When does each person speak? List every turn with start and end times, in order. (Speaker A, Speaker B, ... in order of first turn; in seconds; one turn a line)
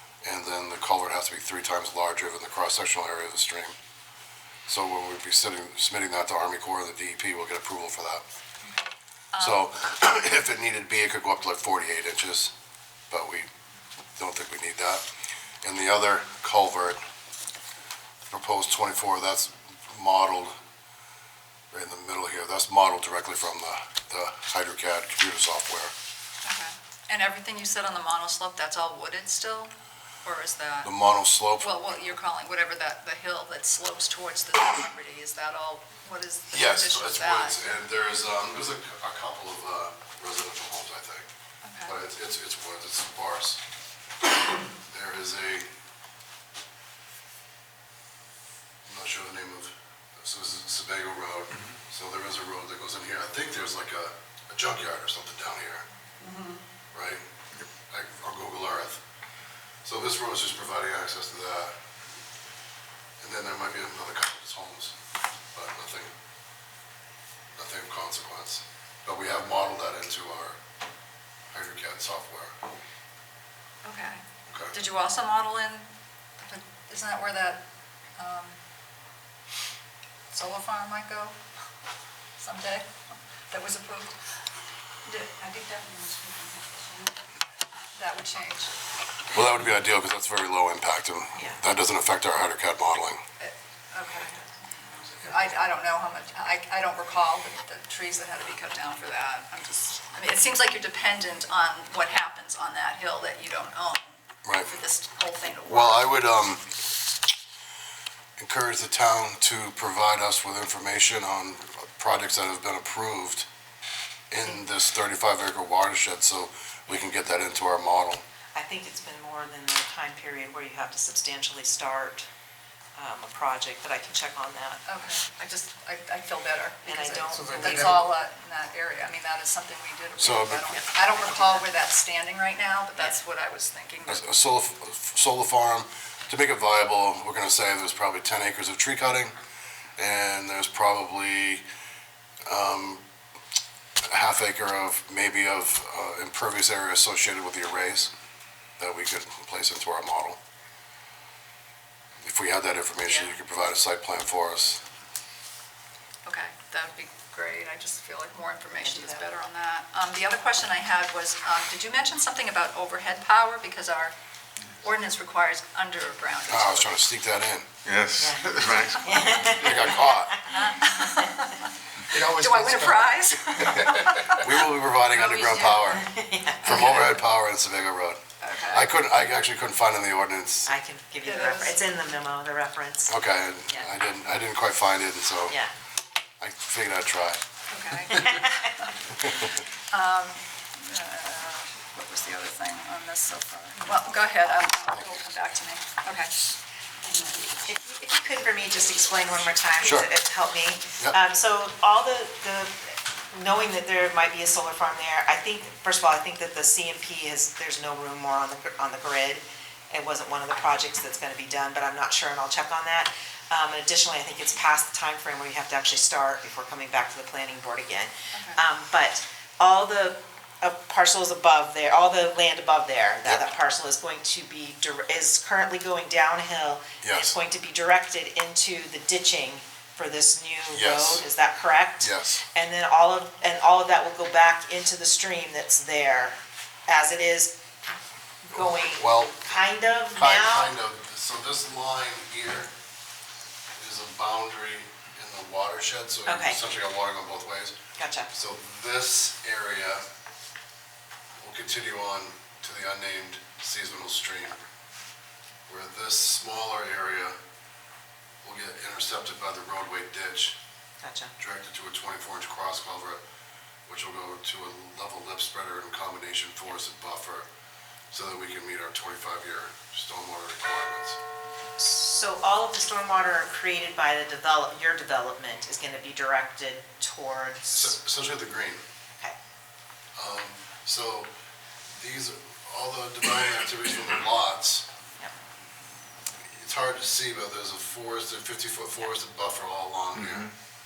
Speaker A: 0.2-3.8
Speaker A: 4.7-8.2
Speaker B: 9.3-9.6
Speaker A: 9.4-12.5
Speaker A: 13.1-13.5
Speaker A: 14.2-15.0
Speaker A: 15.6-17.0
Speaker A: 18.3-20.5
Speaker A: 21.7-25.9
Speaker B: 26.4-29.7
Speaker B: 30.2-30.9
Speaker A: 30.8-31.8
Speaker B: 31.6-37.6
Speaker A: 36.5-41.3
Speaker B: 41.6-41.9
Speaker A: 41.8-43.6
Speaker A: 44.9-45.7
Speaker A: 48.9-55.9
Speaker B: 56.2-56.6
Speaker A: 56.9-57.2
Speaker A: 57.9-59.0
Speaker A: 59.8-61.8
Speaker A: 63.2-65.0
Speaker A: 65.5-66.1
Speaker A: 67.5-70.6
Speaker A: 71.5-72.6
Speaker B: 73.8-74.2
Speaker A: 74.5-74.8
Speaker B: 74.7-77.6
Speaker B: 78.2-78.6
Speaker B: 80.3-81.3
Speaker B: 82.4-82.9
Speaker B: 83.5-84.2
Speaker B: 85.0-87.1
Speaker B: 88.0-88.8
Speaker A: 89.3-93.2
Speaker B: 93.4-106.1
Speaker A: 104.4-104.7
Speaker A: 105.7-106.7
Speaker A: 108.4-113.5
Speaker A: 114.3-118.2
Speaker C: 118.5-122.3
Speaker C: 123.0-124.8
Speaker B: 124.9-134.4
Speaker C: 126.8-128.1
Speaker D: 127.4-128.0
Speaker A: 130.2-130.7
Speaker C: 130.7-131.6
Speaker A: 134.1-139.3
Speaker A: 140.0-141.6
Speaker A: 142.5-143.0
Speaker A: 144.0-148.1
Speaker A: 148.8-150.4
Speaker A: 152.2-154.8
Speaker B: 153.1-153.3
Speaker B: 156.2-164.1
Speaker C: 158.8-159.2
Speaker B: 164.8-167.0
Speaker A: 166.5-167.7
Speaker D: 167.8-169.6
Speaker C: 168.2-170.6
Speaker A: 169.5-170.4
Speaker B: 170.5-174.5
Speaker D: 172.1-174.2
Speaker A: 173.6-176.1
Speaker B: 175.1-176.0
Speaker C: 175.9-177.2
Speaker A: 176.6-180.7
Speaker B: 178.4-178.9
Speaker C: 180.7-183.2
Speaker B: 181.2-181.8
Speaker A: 183.1-185.6
Speaker A: 186.4-187.4
Speaker B: 187.7-197.5
Speaker C: 188.2-188.6
Speaker A: 189.2-189.4
Speaker C: 197.6-237.6
Speaker A: 199.8-200.1
Speaker B: 218.3-218.6
Speaker A: 227.0-227.3
Speaker A: 230.7-231.2
Speaker A: 232.0-232.4
Speaker C: 238.4-240.7
Speaker A: 238.6-239.4
Speaker A: 240.2-242.7
Speaker A: 243.8-247.8
Speaker C: 246.3-246.6
Speaker C: 248.0-248.3
Speaker A: 248.3-250.0
Speaker A: 251.4-254.6
Speaker A: 255.7-257.4
Speaker A: 258.4-260.6
Speaker C: 261.0-261.3
Speaker A: 261.4-263.2
Speaker A: 263.9-267.5
Speaker A: 268.1-271.2
Speaker C: 271.8-278.0
Speaker A: 277.7-278.8
Speaker A: 280.2-281.3
Speaker A: 281.9-284.9
Speaker A: 286.5-290.5
Speaker D: 290.2-290.4